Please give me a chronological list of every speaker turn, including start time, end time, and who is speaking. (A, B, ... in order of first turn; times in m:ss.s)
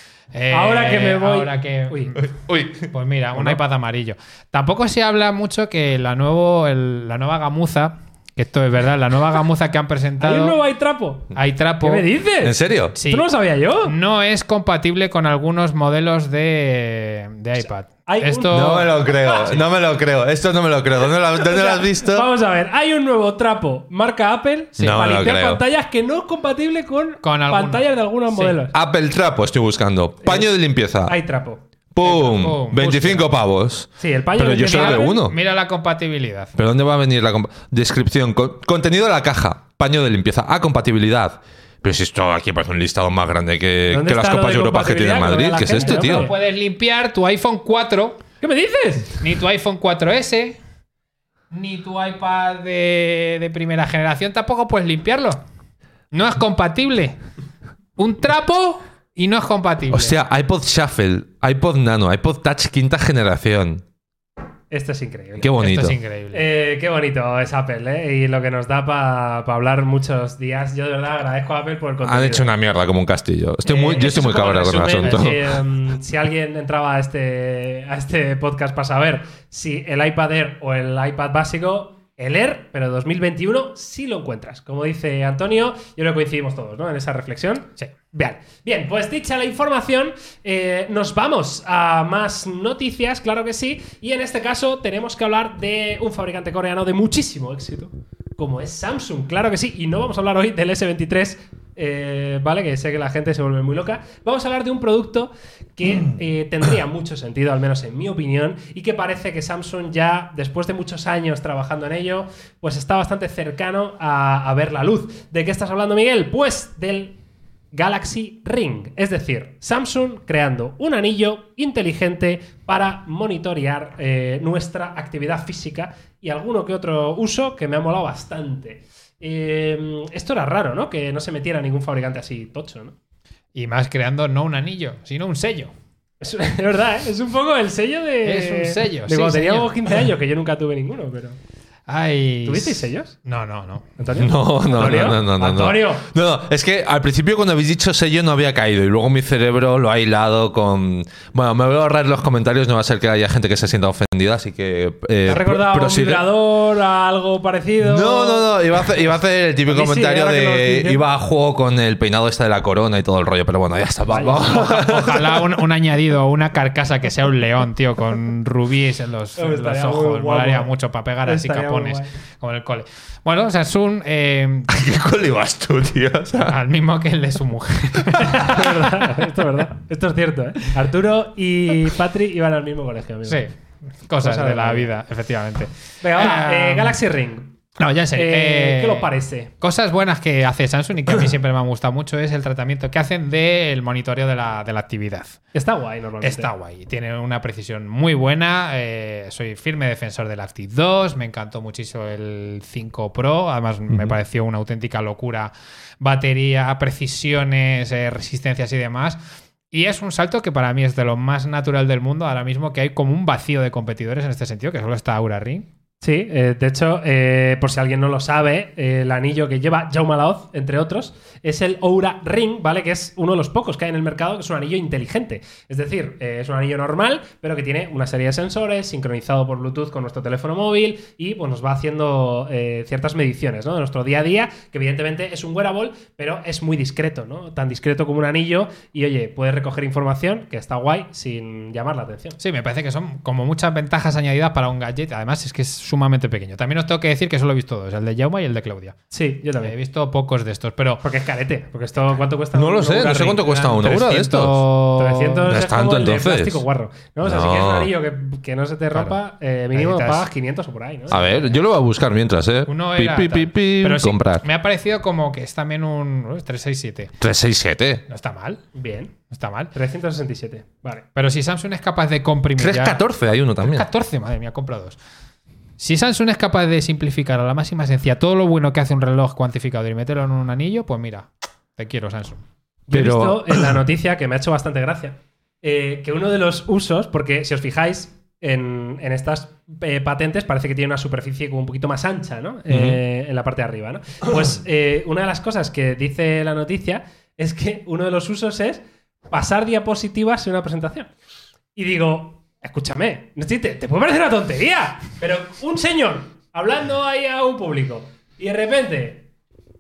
0:00.3-0:02.3 A
0:00.5-0:02.1 B
0:02.2-0:02.9 C
0:02.9-0:10.6 A
0:10.2-0:13.9 B
0:11.3-0:12.1 A
0:12.4-0:12.9 C
0:12.9-0:13.3 A
0:13.8-0:18.9 A
0:18.1-0:19.6 B
0:18.5-0:22.3 C
0:21.3-0:28.7 B
0:24.8-0:25.6 C
0:27.2-0:28.6 A
0:28.7-0:31.2 C
0:30.2-0:30.5 B
0:31.0-0:31.6 B
0:31.9-0:35.3 C
0:32.0-0:33.3 A
0:34.0-0:35.2 B
0:34.5-0:36.5 A
0:36.6-0:46.3 C
0:43.9-0:46.3 B
0:45.8-0:48.2 A
0:48.4-0:49.2 B
0:49.2-0:50.6 A
0:51.5-0:55.4 A
0:56.1-0:57.2 A
0:58.0-1:00.2 A
0:59.9-1:03.8 C
1:04.7-1:05.6 B
1:05.4-1:06.0 C
1:05.6-1:06.4 A
1:06.3-1:12.5 B
1:12.0-1:15.6 C
1:13.6-1:57.2 B
1:15.0-1:15.3 A
1:57.7-2:12.9 B
2:13.5-2:15.7 A
2:16.2-2:21.4 B
2:18.2-2:19.7 A
2:21.9-2:23.8 A
2:22.4-2:23.2 B
2:24.0-2:26.1 B
2:24.2-2:36.2 C
2:35.2-2:38.5 B
2:37.8-2:45.4 C
2:39.7-2:41.0 B
2:44.1-2:44.6 B
2:44.3-2:54.7 A
2:49.4-2:50.7 B
2:51.2-2:52.1 B
2:54.7-2:56.6 C
2:56.4-2:58.9 A
2:58.2-3:03.4 B
3:03.3-3:03.5 A
3:04.0-3:07.0 A
3:04.2-3:04.9 B
3:06.0-3:07.5 B
3:07.8-3:15.4 A
3:08.1-3:09.5 B
3:15.5-3:16.5 B
3:16.2-3:29.2 A
3:29.7-3:35.7 A
3:36.0-4:02.4 B
4:02.4-4:09.0 A
4:09.1-4:09.7 B
4:09.6-4:11.0 A
4:11.0-4:13.4 B
4:12.5-4:14.6 C
4:13.2-4:15.5 A
4:15.0-4:21.5 B
4:15.5-4:16.6 C
4:17.2-4:17.9 C
4:19.7-4:20.2 A
4:21.1-4:24.4 C
4:22.7-4:27.1 A
4:27.2-4:28.0 C
4:28.1-4:28.6 A
4:28.7-4:29.1 B
4:29.3-4:29.7 A
4:29.7-4:31.0 B
4:31.1-4:33.0 A
4:32.6-4:33.8 C
4:33.6-4:35.0 A
4:35.8-4:42.4 A
4:42.9-5:01.1 B
4:42.9-4:43.7 C
4:52.7-4:53.0 C
5:01.8-5:09.2 B